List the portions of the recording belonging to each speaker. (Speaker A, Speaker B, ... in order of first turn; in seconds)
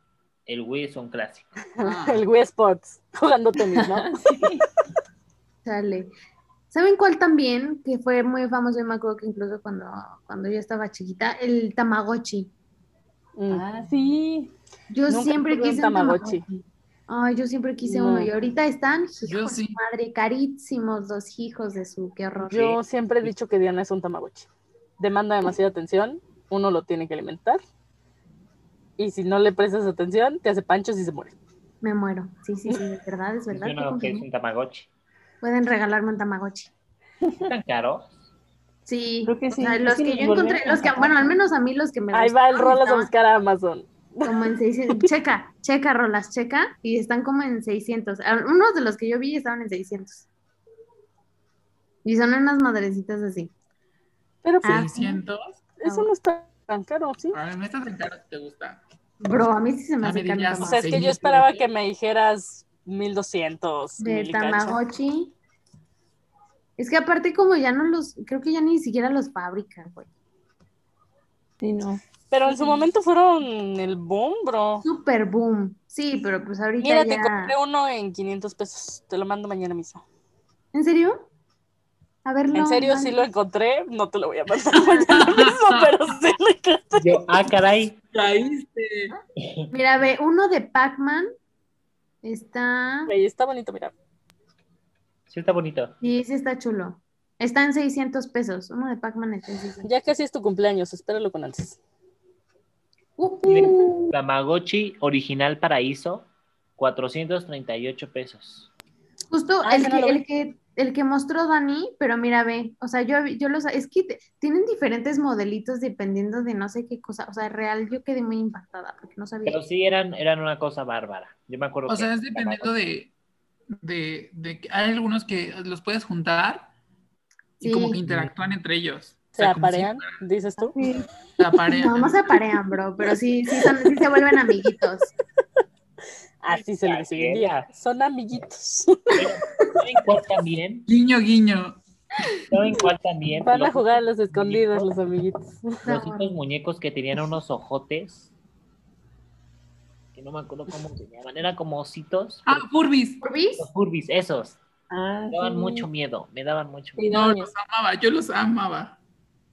Speaker A: 0.5-1.5, 33.5-34.9, 37.5-38.1, 87.0-88.0, 89.4-89.7, 95.3-95.9, 103.5-108.7, 119.5-122.7, 128.1-128.3, 136.5-137.7, 139.1-140.9, 142.5-144.9, 145.8-148.3, 150.1-152.6, 153.6-154.6, 155.3-157.2
Speaker B: 1.8-4.4, 13.4-13.6, 15.1-16.4, 17.8-18.3, 22.5-24.5, 25.0-27.6, 29.0-31.3, 42.1-45.1, 54.4-54.9, 55.8-57.4, 60.6-64.8, 72.3-74.8, 76.8-80.0, 82.5-87.2, 93.1-93.9, 99.8-101.8, 109.6-110.2, 129.3-130.8, 136.4-139.2, 143.4-145.8
Speaker C: 1.8-2.2, 19.2-19.8, 54.6-55.5, 57.3-58.8, 60.0-61.6, 85.1-85.9, 88.1-89.1, 121.9-123.1, 123.7-126.7, 127.6-130.1, 131.4-132.2, 140.9-141.8, 152.4-153.2, 157.1-159.0
Speaker D: 3.7-4.6, 13.5-14.5, 39.2-41.3, 71.6-72.0, 130.8-131.0, 154.9-155.9, 157.0-157.5
Speaker E: 5.6-6.1, 6.7-12.5, 14.9-22.8, 31.8-34.2, 35.4-36.7, 38.9-43.1, 44.2-50.3, 52.0-53.5, 54.6-55.2, 55.8-56.1, 59.2-60.9, 64.0-65.3, 66.8-70.1, 72.4-72.8, 74.8-77.5, 80.7-81.2, 82.2-83.2, 89.7-91.3, 92.2-93.1, 96.0-99.9, 103.2-104.1, 109.3-119.6, 127.6-128.0, 130.8-131.0, 131.7-135.1, 145.8-146.3, 153.2-153.6